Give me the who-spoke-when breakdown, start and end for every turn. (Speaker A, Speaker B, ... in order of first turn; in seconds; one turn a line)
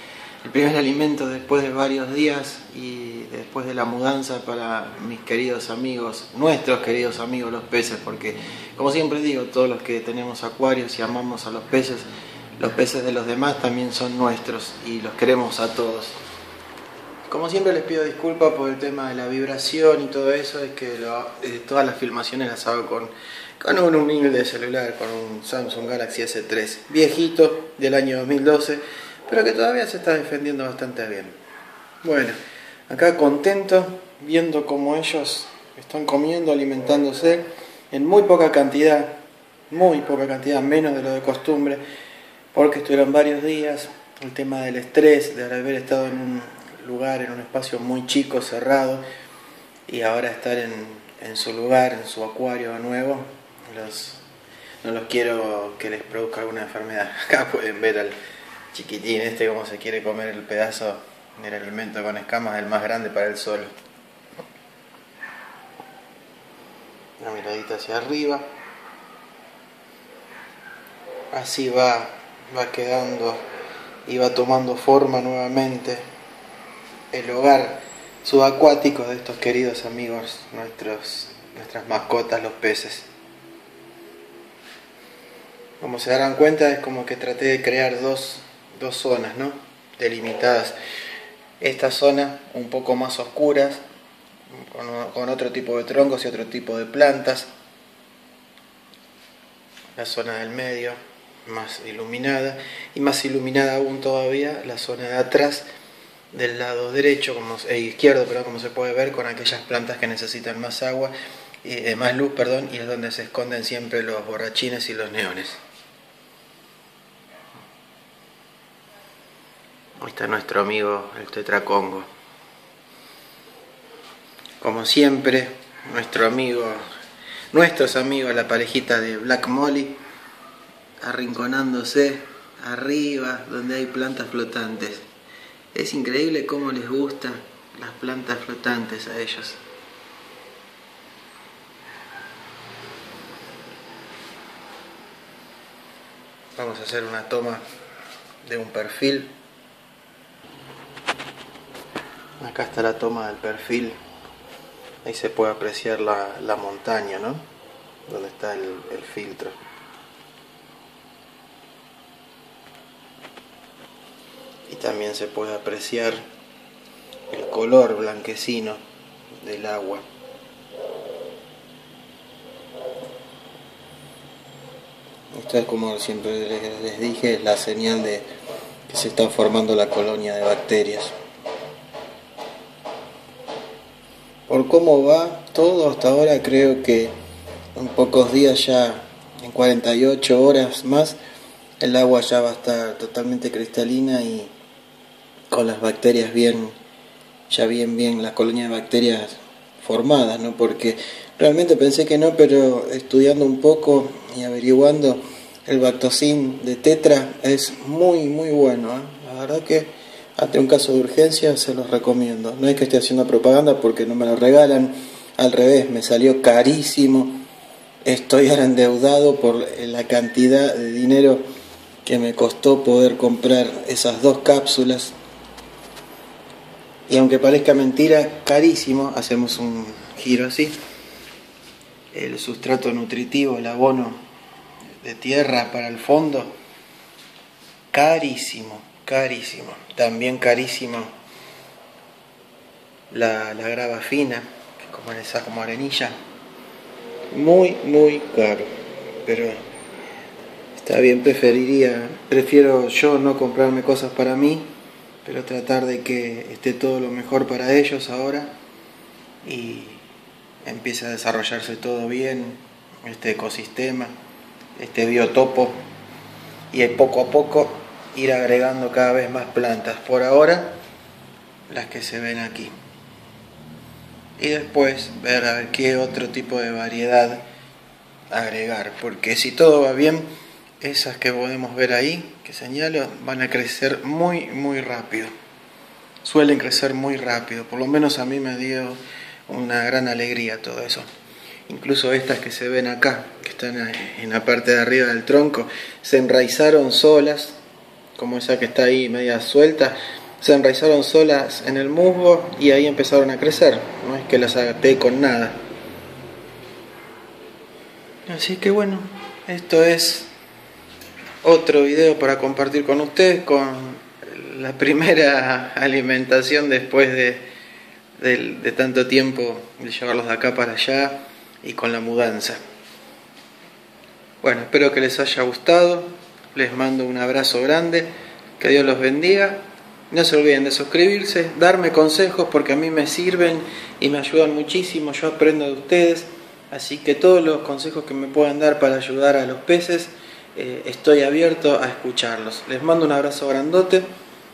Speaker A: 0.4-12.1
Speaker A: 12.6-16.2
Speaker A: 17.3-31.4
Speaker A: 32.0-32.4
Speaker A: 32.9-41.8
Speaker A: 42.5-49.0
Speaker A: 49.9-54.2
Speaker A: 54.8-58.2
Speaker A: 58.7-63.7
Speaker A: 67.2-68.5
Speaker A: 71.3-73.4
Speaker A: 74.1-76.0
Speaker A: 77.1-83.1
Speaker A: 85.8-90.8
Speaker A: 91.6-93.8
Speaker A: 94.5-97.5
Speaker A: 100.0-105.7
Speaker A: 106.3-111.1
Speaker A: 111.6-115.6
Speaker A: 120.0-122.1
Speaker A: 124.6-126.8
Speaker A: 127.5-130.0
Speaker A: 131.0-135.1
Speaker A: 135.7-139.6
Speaker A: 146.6-147.6
Speaker A: 148.4-149.3
Speaker A: 152.4-153.9
Speaker A: 155.0-157.4
Speaker A: 158.1-159.6
Speaker A: 164.7-166.2
Speaker A: 167.3-168.8
Speaker A: 169.4-170.0
Speaker A: 175.3-178.2
Speaker A: 178.9-181.1
Speaker A: 184.5-187.2
Speaker A: 187.8-191.2
Speaker A: 191.8-194.5
Speaker A: 195.5-196.8
Speaker A: 197.5-217.4
Speaker A: 218.1-221.4
Speaker A: 222.1-225.1
Speaker A: 227.1-230.8
Speaker A: 232.1-234.2
Speaker A: 235.0-236.6
Speaker A: 237.9-241.1
Speaker A: 243.1-246.2
Speaker A: 247.3-248.7
Speaker A: 249.2-249.6
Speaker A: 250.8-254.7
Speaker A: 255.2-258.5
Speaker A: 259.4-260.0
Speaker A: 260.6-264.1
Speaker A: 264.8-265.8
Speaker A: 266.7-270.8
Speaker A: 271.7-272.7
Speaker A: 274.4-277.4
Speaker A: 278.3-280.3
Speaker A: 280.8-285.3
Speaker A: 286.2-291.1
Speaker A: 291.7-297.6
Speaker A: 298.2-305.6
Speaker A: 308.3-310.3
Speaker A: 311.4-317.4
Speaker A: 318.2-322.6
Speaker A: 324.4-344.1